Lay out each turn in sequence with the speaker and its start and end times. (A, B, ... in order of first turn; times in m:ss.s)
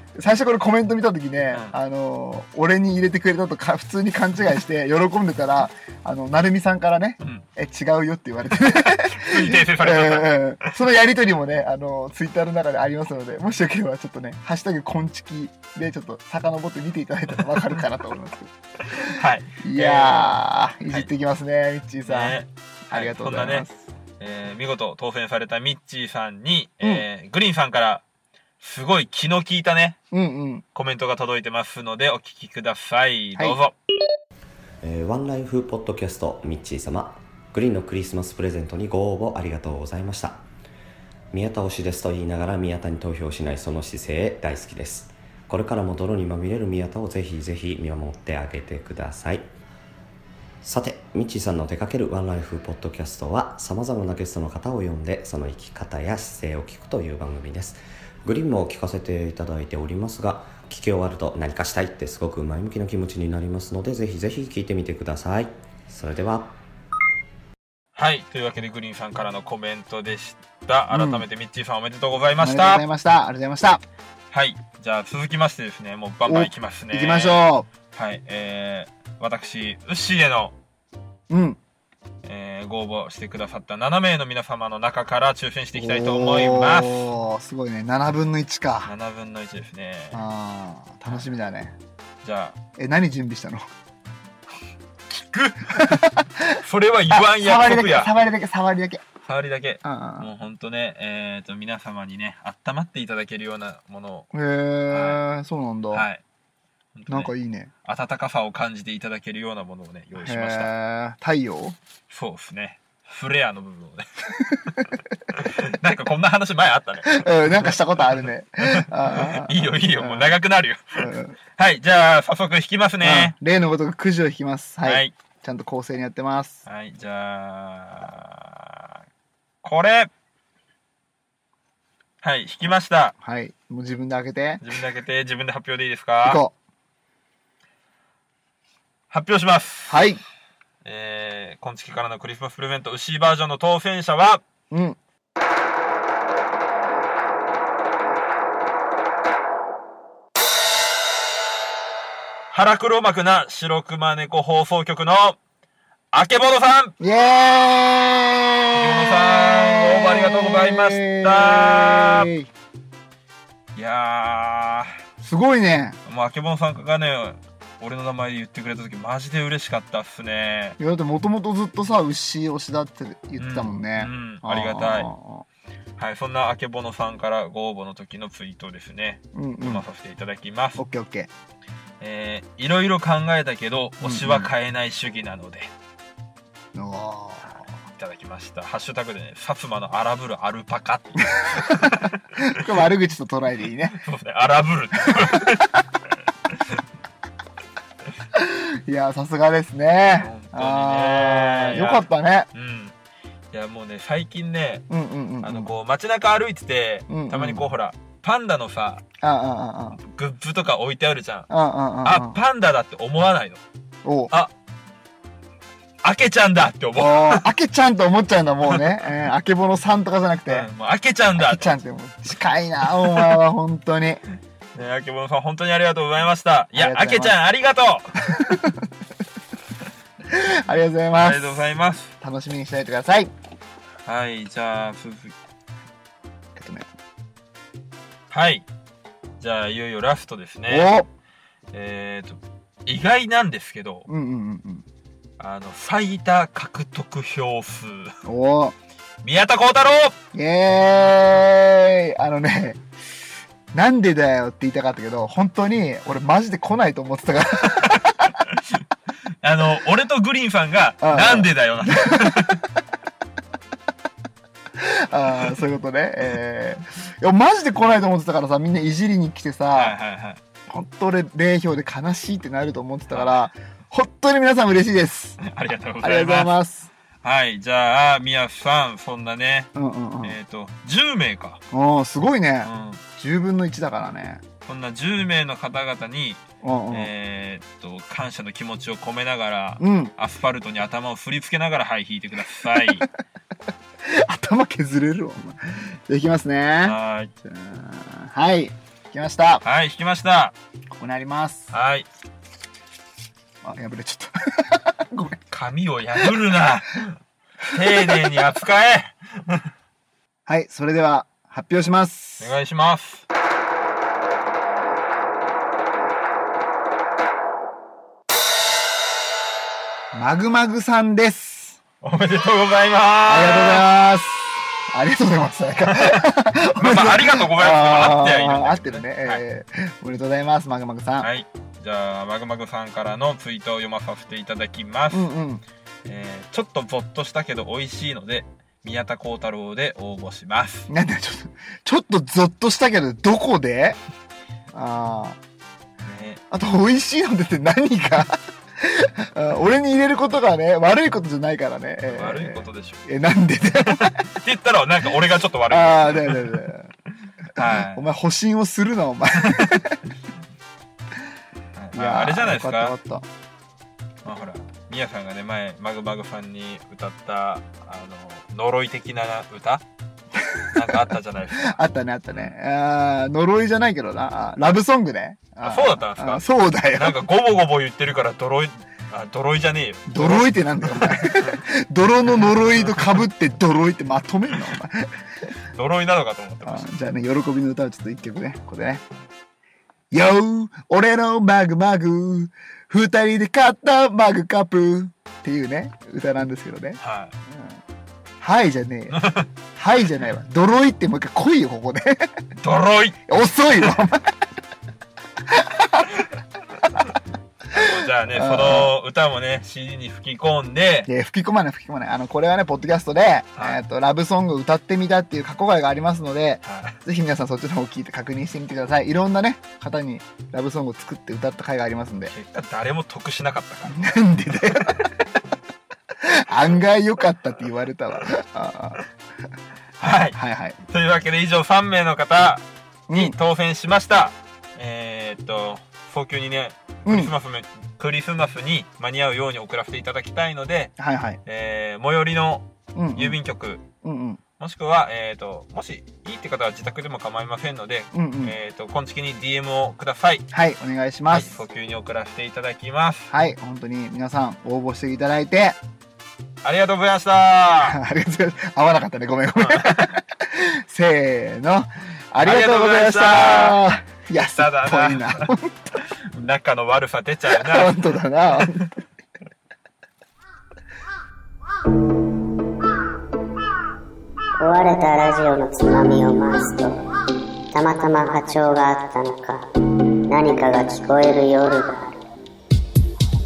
0:00.2-0:18.5 A
0:08.6-0:10.7 B
0:17.3-0:17.7 B
0:18.9-0:21.1 B
0:19.6-0:22.4 A
0:22.0-0:23.7 B
0:22.9-0:23.8 A
0:24.2-0:28.0 B
0:28.6-0:30.0 B
0:30.1-0:30.6 A
0:30.7-0:33.7 B
0:34.8-0:40.4 C
0:41.3-0:49.5 C
0:50.6-1:06.6 C
1:07.9-1:12.8 B
1:10.9-1:11.2 A
1:12.4-1:13.8 A
1:14.3-1:20.5 B
1:16.2-1:17.7 A
1:21.3-1:21.6 A
1:22.2-1:27.1 B
1:25.7-1:28.9 A
1:28.8-1:30.2 B
1:30.1-1:31.7 A
1:32.2-1:32.6 B
1:32.8-1:33.6 A
1:35.1-1:38.1 B
1:35.7-1:36.6 A
1:37.1-1:39.0 A
1:39.2-1:44.3 B
1:39.8-1:40.3 A
1:44.3-1:46.0 A
1:44.9-1:45.2 B
1:45.9-1:46.2 B
1:46.9-1:47.3 B
1:47.1-1:47.7 A
1:47.8-1:50.7 B
1:50.2-1:51.8 A
1:52.1-2:03.3 B
1:57.0-2:00.4 A
2:01.0-2:01.4 A
2:03.0-2:06.6 A
2:04.8-2:05.1 B
2:06.6-2:08.8 B
2:09.6-2:10.1 B
2:12.2-2:13.1 B
2:13.2-2:14.6 A
2:14.6-2:16.4 B
2:16.2-2:16.5 A
2:19.1-2:20.0 B
2:19.9-2:20.2 A
2:20.8-2:24.4 B
2:24.7-2:25.0 A
2:32.5-2:35.4 B
2:36.1-2:36.9 B
2:37.0-2:42.5 A
2:38.7-2:42.3 B
2:43.8-2:45.0 B
2:45.2-2:46.0 A
2:46.0-2:50.8 B
2:50.8-2:55.4 A
2:53.4-2:55.1 B
2:56.0-3:00.8 B
2:59.3-2:59.8 A
3:00.8-3:01.3 A
3:02.0-3:05.7 B
3:04.0-3:04.5 A
3:06.7-3:07.7 A
3:08.0-3:12.6 B
3:11.3-3:14.0 A
3:13.9-3:15.8 B
3:18.3-3:22.5 A
3:20.2-3:22.9 B
3:23.5-3:24.9 B
3:24.9-3:25.7 A
3:25.4-3:29.0 B
3:27.1-3:27.6 A
3:29.2-3:30.0 A
3:30.0-3:31.5 B
3:31.5-3:32.4 A
3:32.0-3:33.6 B
3:34.0-3:34.3 A
3:36.0-3:37.5 B
3:37.0-3:40.7 A
3:40.5-3:41.8 B
3:41.4-3:44.2 A
3:42.9-3:43.4 B
3:44.7-3:48.4 B
3:46.7-3:47.4 A
3:48.3-3:48.8 A
3:50.3-3:51.7 A
3:51.2-3:52.1 B
3:52.2-3:53.3 A
3:54.0-3:55.3 B
3:56.5-3:56.9 A
3:58.3-3:58.6 B
3:59.4-4:00.9 B
4:00.7-4:01.1 A
4:01.7-4:04.1 B
4:04.1-4:04.8 A
4:05.4-4:08.1 B
4:08.2-4:08.8 A
4:09.2-4:10.2 B
4:10.3-4:12.8 A
4:13.7-4:18.3 A
4:17.6-4:18.6 B
4:19.4-4:22.6 B
4:21.0-4:22.6 A
4:24.8-4:30.0 A
4:29.7-4:30.4 B
4:30.7-4:35.4 A
4:33.1-4:33.5 B
4:35.4-4:36.6 B
4:36.0-4:36.9 A
4:37.2-4:39.7 B
4:39.7-4:40.4 A
4:40.2-4:41.6 B
4:41.7-4:44.4 A
4:42.6-4:43.0 B
4:44.6-4:53.1 B
4:46.6-4:47.1 A
4:49.8-4:50.1 A
4:52.7-4:53.0 A
4:54.0-4:59.6 A
4:56.8-4:57.3 B
4:59.6-5:00.5 B
5:00.9-5:01.7 A
5:01.7-5:02.1 B
5:03.6-5:05.4 A
5:05.5-5:07.2 B
5:07.7-5:09.6 B
5:10.5-5:12.5 A
5:12.4-5:13.2 B
5:20.1-5:21.8 A
5:22.0-5:23.8 B
5:23.2-5:31.3 A
5:25.9-5:26.2 B
5:26.7-5:29.4 B
5:31.2-5:35.3 B
5:35.1-5:35.6 A
5:36.0-5:40.9 B
5:40.9-5:44.0 A
5:44.7-5:45.4 A
5:46.0-5:46.4 B
5:46.5-5:54.2 A
5:52.1-5:53.0 B
5:53.8-5:56.6 B
5:55.7-5:56.9 A
5:57.5-5:58.1 B
5:57.6-6:00.0 A
6:01.7-6:02.9 B
6:01.9-6:03.3 A
6:04.2-6:09.8 B
6:10.4-6:17.2 A
6:10.7-6:11.8 B
6:15.6-6:21.6 B
6:20.1-6:25.1 A
6:22.8-6:23.1 B
6:25.7-6:26.9 B
6:26.6-6:29.0 A
6:30.1-6:37.8 A
6:37.0-6:37.3 B
6:38.4-6:39.2 A
6:39.1-6:39.5 B
6:39.7-6:42.3 A
6:42.6-6:43.2 B
6:43.2-6:44.3 A
6:45.5-6:46.0 A
6:47.7-6:51.1 B
6:47.8-6:48.9 A
6:51.1-7:02.3 A
6:56.6-6:57.0 B
7:02.3-7:04.1 B
7:03.9-7:05.1 A
7:04.6-7:05.0 B
7:06.2-7:09.0 A
7:10.0-7:23.8 B
7:10.3-7:10.8 A
7:13.1-7:13.4 A
7:17.0-7:17.3 A
7:21.0-7:21.4 A
7:22.9-7:23.4 A
7:24.0-7:24.4 A
7:24.6-7:30.5 B
7:28.1-7:28.5 A
7:30.5-7:31.6 A
7:31.3-7:33.3 B
7:33.3-7:35.8 A
7:36.6-7:38.0 B
7:37.8-7:45.9 A
7:39.6-7:40.2 B
7:42.4-7:43.8 B
7:44.3-7:45.5 B
7:46.0-7:48.0 B
7:47.5-7:48.9 A
7:48.5-7:48.8 B
7:54.6-7:57.0 D
7:57.7-7:59.6 D
8:00.3-8:02.2 D